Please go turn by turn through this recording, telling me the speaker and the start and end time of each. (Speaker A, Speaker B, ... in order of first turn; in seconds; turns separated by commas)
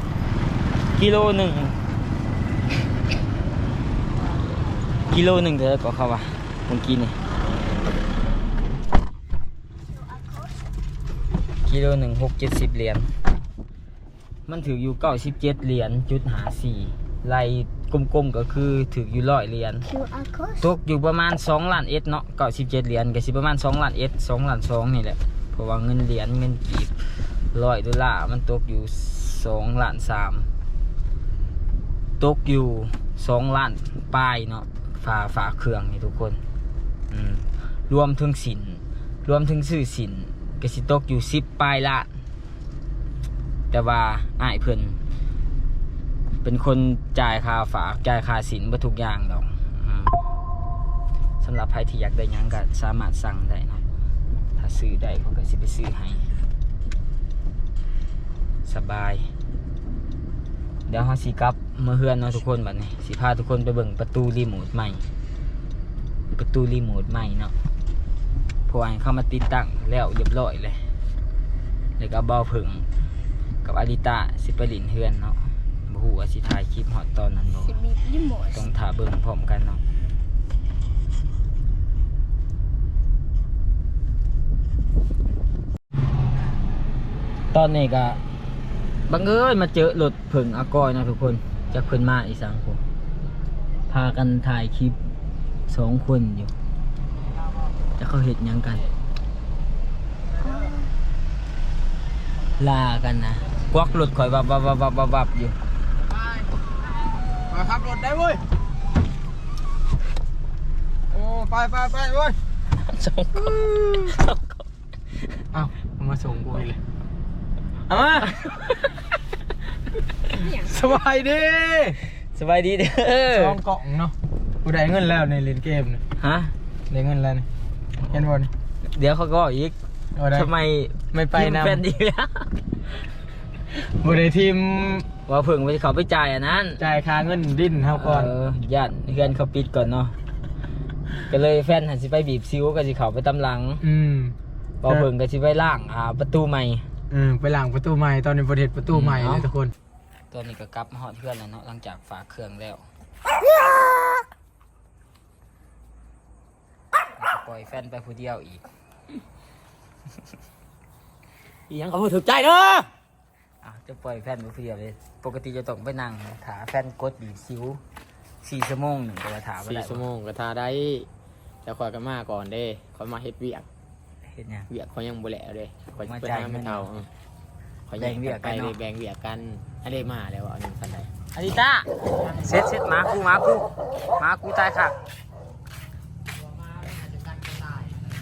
Speaker A: 0.9-1.8, Speaker A: 5.1-7.2, Speaker A: 11.7-13.1, Speaker A: 14.5-19.9, Speaker B: 19.9-20.6, Speaker A: 20.6-26.9, Speaker A: 27.5-30.5, Speaker A: 32.2-36.4, Speaker A: 37.1-42.1, Speaker A: 43.7-45.0, Speaker A: 46.4-50.2, Speaker A: 51.4-53.8, Speaker A: 54.6-56.3, Speaker A: 58.6-59.3, Speaker A: 60.9-65.0, Speaker A: 66.3-67.5, Speaker A: 68.7-70.8, Speaker A: 72.0-72.9, Speaker A: 73.6-77.9, Speaker B: 77.8-78.5, Speaker A: 78.4-79.8, Speaker A: 87.5-88.2, Speaker A: 89.1-92.8, Speaker A: 93.9-95.0, Speaker A: 95.7-96.5, Speaker A: 98.0-98.8, Speaker B: 100.5-100.8, Speaker A: 102.6-105.6, Speaker C: 106.0-106.5, Speaker C: 107.5-108.4, Speaker C: 111.1-112.4, Speaker A: 112.8-114.6, Speaker C: 115.5-116.8, Speaker C: 117.9-118.3, Speaker A: 118.2-118.9, Speaker C: 120.4-122.0, Speaker A: 122.3-123.6, Speaker C: 123.3-126.0, Speaker A: 126.2-126.5, Speaker C: 126.9-127.5, Speaker C: 128.1-128.5, Speaker A: 128.8-129.8, Speaker C: 130.2-130.5, Speaker A: 130.3-132.5, Speaker C: 131.1-131.8, Speaker C: 133.7-135.1, Speaker A: 135.3-136.8, Speaker C: 136.8-138.3, Speaker A: 137.9-140.2, Speaker A: 141.2-143.8, Speaker C: 143.8-144.3, Speaker A: 144.8-146.8, Speaker C: 147.1-149.7, Speaker A: 148.9-149.5, Speaker A: 150.3-152.8, Speaker A: 157.2-158.6, Speaker C: 161.7-162.9, Speaker A: 163.6-167.8, Speaker A: 168.4-170.1, Speaker C: 169.6-171.1, Speaker C: 171.7-173.7, Speaker A: 174.3-174.7, Speaker C: 174.7-177.1, Speaker A: 175.9-176.9, Speaker C: 177.9-181.1, Speaker A: 178.0-178.8, Speaker A: 181.3-184.9, Speaker C: 182.2-182.7, Speaker C: 186.4-187.9